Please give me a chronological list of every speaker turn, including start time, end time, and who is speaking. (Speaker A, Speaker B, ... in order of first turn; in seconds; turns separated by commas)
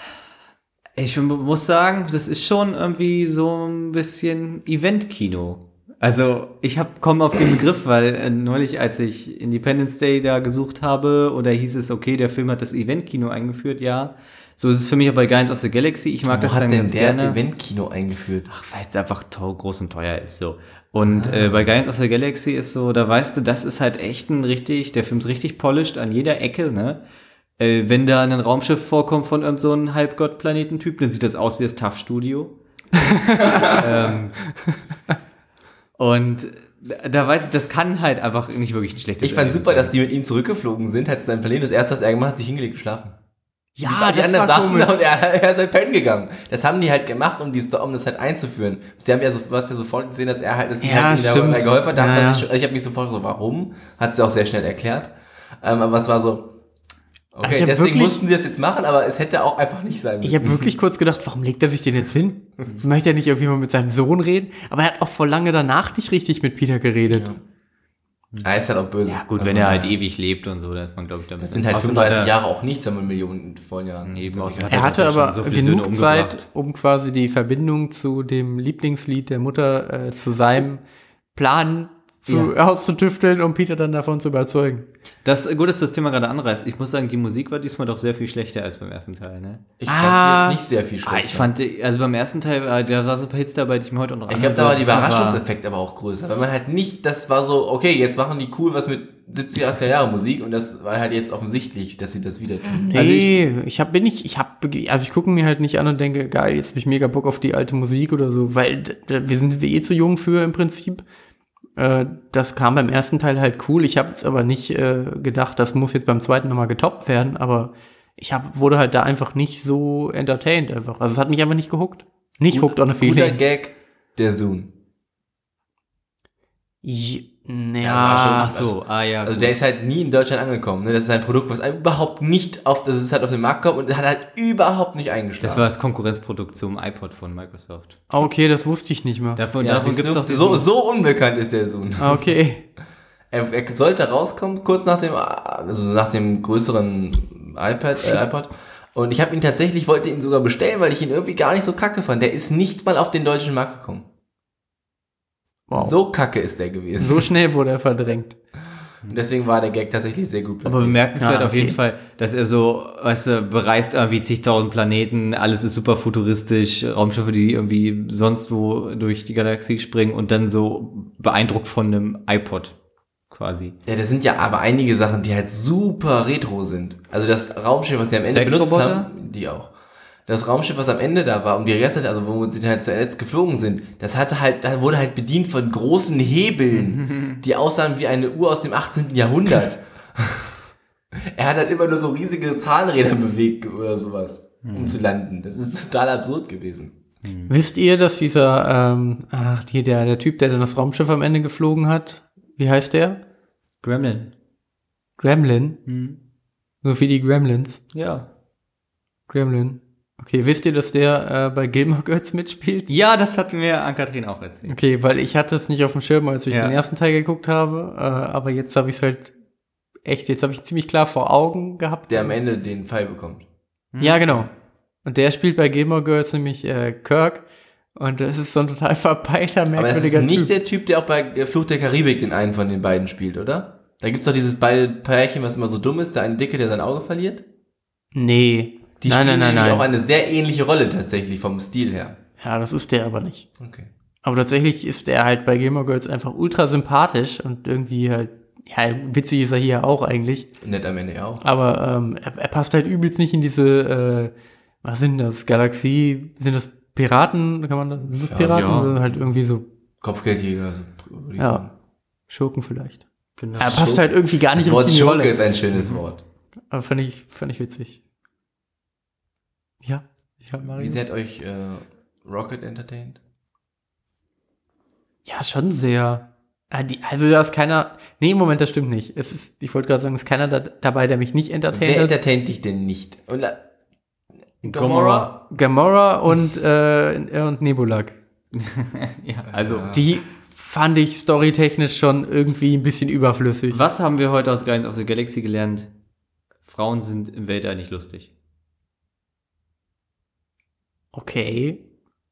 Speaker A: 1.0-17.4, Speaker B: 16.3-18.5, Speaker A: 18.5-27.0, Speaker B: 21.0-21.7, Speaker A: 27.6-32.6, Speaker C: 33.0-33.8, Speaker B: 33.6-34.1, Speaker A: 33.6-34.4, Speaker A: 36.0-39.9, Speaker B: 39.2-43.1, Speaker C: 43.8-45.0, Speaker B: 43.8-56.5, Speaker C: 50.8-52.5, Speaker B: 57.3-60.7, Speaker C: 57.4-58.2, Speaker C: 60.2-67.3, Speaker B: 67.1-67.4, Speaker B: 68.4-70.0, Speaker A: 69.1-72.3, Speaker B: 71.4-75.0, Speaker A: 74.1-76.4, Speaker C: 74.7-80.8, Speaker C: 81.3-84.9, Speaker A: 85.2-89.6, Speaker B: 89.8-91.5, Speaker C: 89.9-90.6, Speaker A: 91.0-95.4, Speaker B: 94.3-103.3, Speaker C: 102.8-111.0, Speaker C: 111.8-123.4, Speaker B: 122.5-124.7, Speaker C: 126.8-128.5, Speaker B: 127.8-135.7, Speaker A: 128.3-129.6, Speaker A: 135.4-138.0, Speaker C: 138.1-139.4, Speaker A: 139.4-140.7, Speaker B: 139.6-142.3, Speaker C: 142.0-142.6, Speaker B: 143.3-154.1, Speaker C: 155.7-155.9, Speaker B: 155.7-157.3, Speaker C: 157.0-158.4, Speaker B: 159.1-161.0, Speaker A: 160.7-172.8, Speaker C: 161.2-161.8, Speaker A: 173.3-173.8, Speaker B: 173.9-179.7, Speaker A: 178.3-179.1, Speaker B: 180.3-190.6, Speaker A: 186.7-187.4, Speaker B: 191.1-196.9, Speaker A: 194.6-195.0, Speaker A: 197.2-197.5, Speaker C: 197.5-203.2, Speaker A: 203.8-204.3, Speaker C: 205.2-205.8, Speaker A: 205.9-206.2, Speaker C: 206.8-207.8, Speaker A: 207.9-208.3, Speaker C: 209.3-212.9, Speaker A: 212.9-214.8, Speaker C: 214.7-219.3, Speaker A: 216.5-216.8, Speaker C: 220.1-222.4, Speaker B: 222.1-223.4, Speaker A: 223.9-224.5, Speaker C: 224.0-224.5, Speaker C: 225.1-230.5, Speaker B: 229.7-237.4, Speaker C: 238.1-239.9, Speaker B: 239.0-242.2, Speaker C: 242.4-243.5, Speaker B: 243.6-243.9, Speaker C: 244.2-250.5, Speaker B: 250.6-251.4, Speaker C: 251.4-259.6, Speaker B: 258.3-258.9, Speaker A: 258.4-258.9, Speaker B: 260.0-261.7, Speaker C: 261.4-261.6, Speaker C: 262.3-263.0, Speaker A: 263.4-264.0, Speaker C: 263.6-265.4, Speaker B: 263.6-266.2, Speaker A: 265.7-266.0, Speaker C: 266.7-268.0, Speaker C: 269.8-271.0, Speaker B: 270.6-273.2, Speaker C: 275.2-282.1, Speaker B: 281.7-283.6, Speaker B: 284.6-285.4, Speaker A: 284.6-285.3, Speaker C: 285.5-288.2, Speaker A: 288.5-289.9, Speaker B: 289.5-290.1, Speaker C: 289.9-293.8, Speaker A: 293.7-295.9, Speaker A: 296.7-298.3, Speaker C: 301.1-301.8